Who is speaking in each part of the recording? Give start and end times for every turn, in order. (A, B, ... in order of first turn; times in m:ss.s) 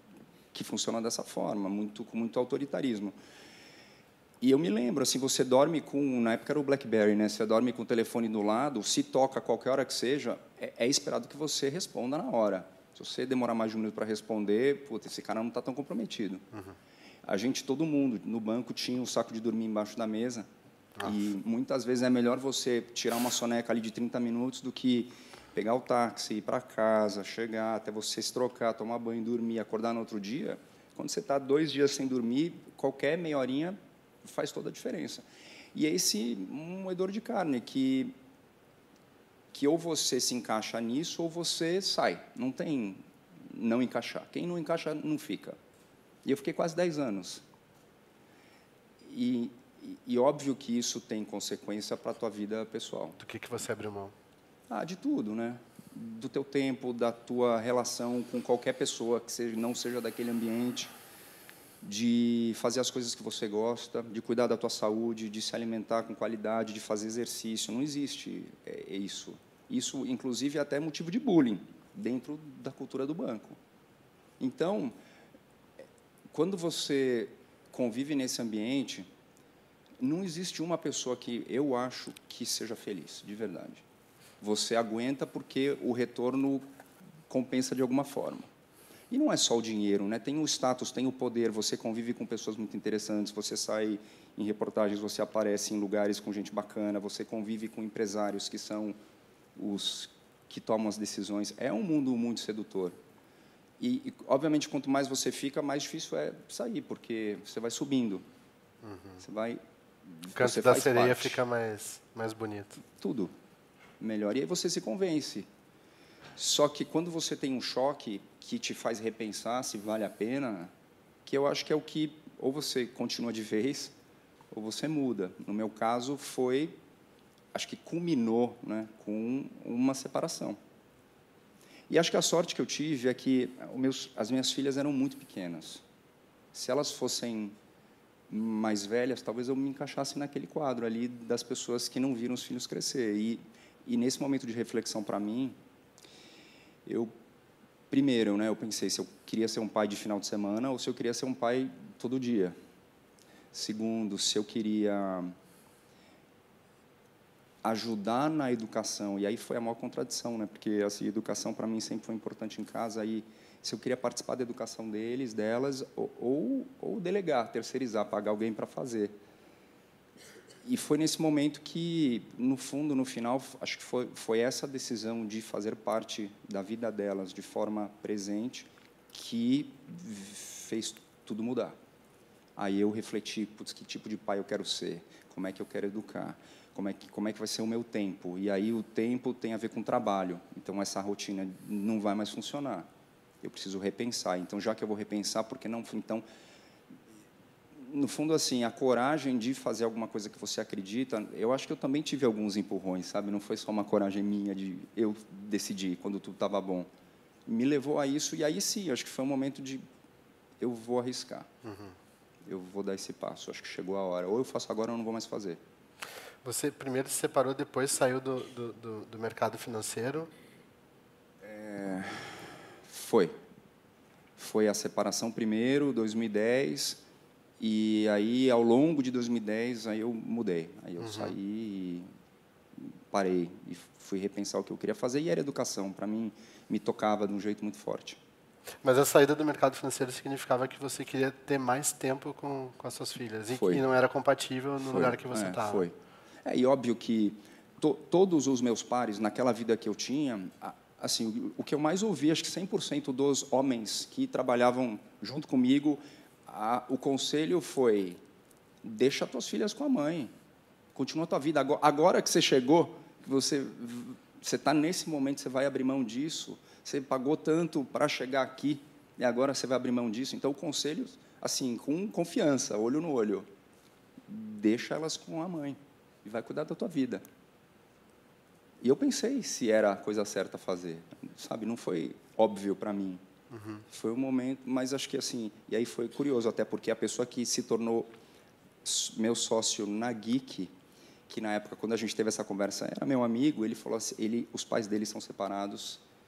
0:00.5-0:03.2 A
0:04.4-0:16.4 A
0:17.2-0:20.5 A
0:21.0-0:38.2 A
0:39.5-0:45.6 A
0:46.2-0:47.4 A
0:49.0-0:53.2 A
0:53.2-0:54.1 B
0:54.7-1:01.0 A
1:01.8-1:13.6 A
1:14.4-1:15.0 A
1:16.3-1:19.1 A
1:20.0-1:23.8 A
1:24.4-1:26.7 A
1:27.3-1:28.5 A
1:29.1-1:39.0 A
1:39.6-1:43.0 A
1:43.8-1:48.3 A
1:48.8-1:49.2 B
1:49.2-1:51.4 A
1:50.4-1:52.8 B
1:52.8-1:53.3 A
1:54.0-1:55.5 A
1:56.4-2:00.7 A
2:01.2-2:03.9 A
2:04.5-2:06.8 A
2:07.5-2:10.6 A
2:11.9-2:15.8 A
2:16.5-2:17.6 A
2:18.3-2:25.6 A
2:26.8-2:27.1 A
2:27.9-2:32.6 A
2:33.5-2:35.4 A
2:37.6-2:49.2 A
2:50.6-3:01.8 A
3:02.6-3:12.9 A
3:13.4-3:16.2 A
3:17.8-3:26.9 A
3:27.5-3:29.8 A
3:30.6-3:31.5 A
3:31.6-3:31.9 B
3:32.4-3:35.6 A
3:36.4-3:40.3 B
3:41.4-3:43.4 A
3:44.4-3:47.0 A
3:47.6-3:52.1 A
3:51.0-3:51.3 B
3:52.8-3:58.2 A
3:58.8-4:05.9 B
4:03.5-4:03.8 A
4:04.8-4:18.2 A
4:18.8-4:20.3 A
4:21.0-4:33.5 A
4:34.3-4:37.2 A
4:38.8-4:43.2 A
4:43.5-4:43.8 B
4:43.9-4:48.1 A
4:48.8-4:50.7 A
4:51.3-4:56.0 A